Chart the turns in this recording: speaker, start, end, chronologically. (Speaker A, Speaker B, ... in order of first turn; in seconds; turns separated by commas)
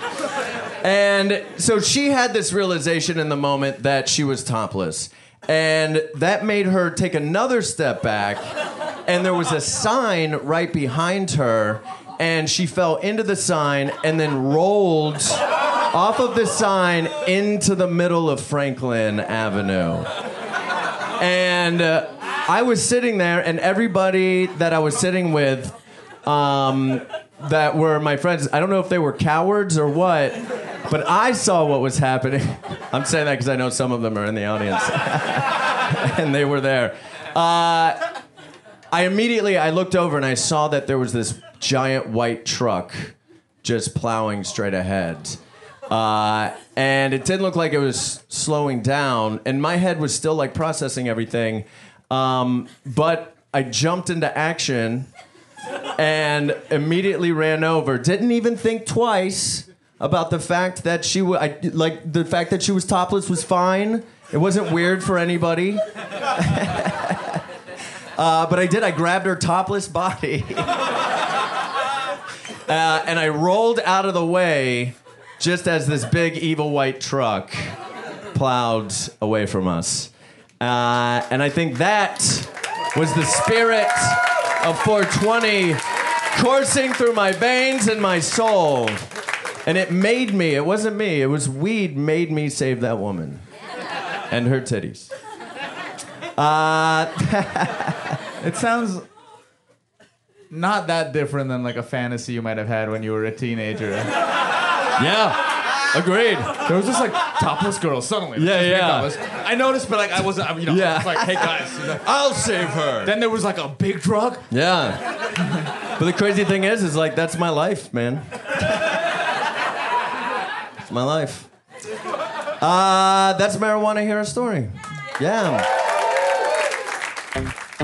Speaker A: 0.8-8.5, Speaker A: 9.1-20.1, Speaker A: 21.2-25.7, Speaker A: 26.2-38.1, Speaker A: 38.9-55.1, Speaker A: 56.0-65.8, Speaker A: 66.3-67.4, Speaker A: 68.2-70.7, Speaker A: 72.7-77.8, Speaker A: 78.3-85.8, Speaker A: 86.3-89.1, Speaker A: 89.7-93.4, Speaker A: 94.3-95.1, Speaker A: 96.4-98.2, Speaker B: 98.4-99.1, Speaker B: 100.5-104.1, Speaker A: 105.0-106.6, Speaker B: 106.6-112.1, Speaker A: 108.4-109.1, Speaker A: 110.7-113.1, Speaker B: 113.0-114.5, Speaker A: 114.5-115.0, Speaker A: 116.0-118.9, Speaker A: 120.8-121.5, Speaker A: 122.6-125.7